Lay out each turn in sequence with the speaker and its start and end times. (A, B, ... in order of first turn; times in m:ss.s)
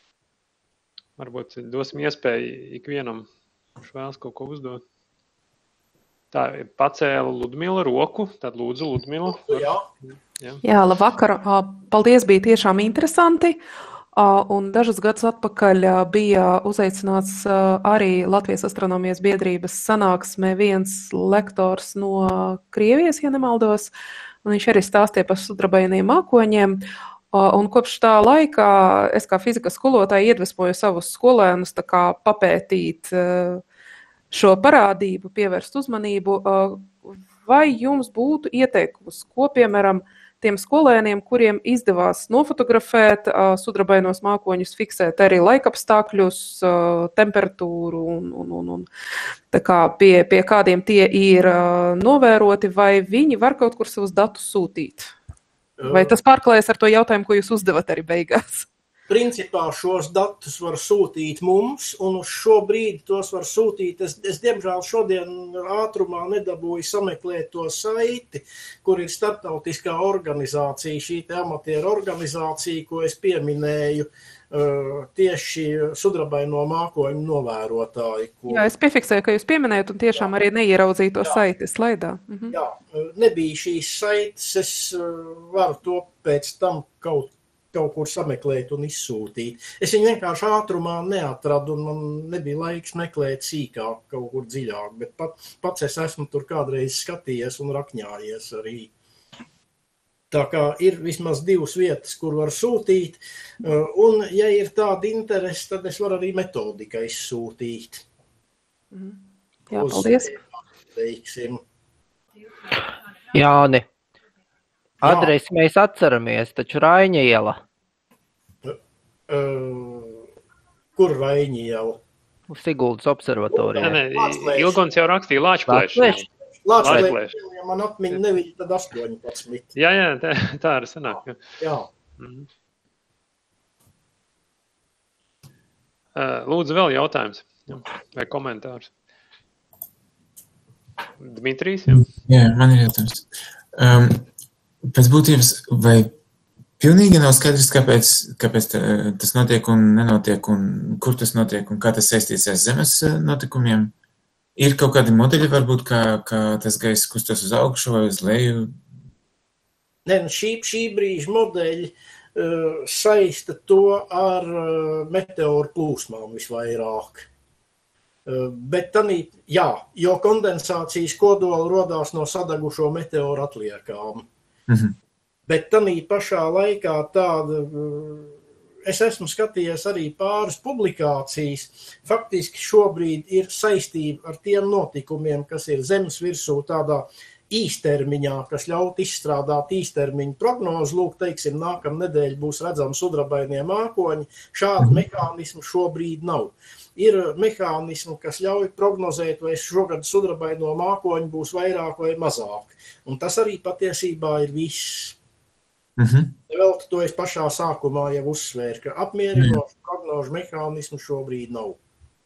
0:01.2-0:03.3 A
0:03.8-0:04.8 A
0:06.3-0:10.6 A
0:09.2-0:09.8 B
0:10.6-0:13.6 C
0:14.1-0:23.9 C
0:24.4-0:26.8 C
0:27.3-0:33.6 C
0:34.3-0:48.9 C
0:49.5-0:55.1 C
0:55.8-0:56.2 B
0:55.8-0:58.6 C
0:59.1-1:18.7 B
1:18.5-1:22.5 C
1:22.5-1:38.9 B
1:40.3-1:48.0 B
1:48.9-1:49.2 C
1:49.7-1:50.3 C
1:49.7-1:51.6 B
1:53.3-1:53.8 D
1:55.0-1:57.6 D
1:55.0-1:55.3 B
1:59.3-2:00.2 B
2:01.0-2:02.0 B
2:02.5-2:03.9 D
2:03.5-2:04.8 B
2:03.8-2:06.2 A
2:05.7-2:06.2 D
2:06.6-2:09.7 B
2:06.8-2:07.3 A
2:09.8-2:11.4 A
2:11.1-2:11.9 B
2:12.2-2:12.5 A
2:16.1-2:18.9 A
2:21.2-2:22.1 A
2:21.9-2:24.2 E
2:24.8-2:26.1 E
2:26.8-2:33.9 E
2:34.6-2:38.8 E
2:40.0-2:47.3 B
2:48.2-2:54.3 B
2:54.7-2:54.9 E
2:55.5-3:25.2 B
3:26.0-3:26.3 E
3:26.5-3:31.8 B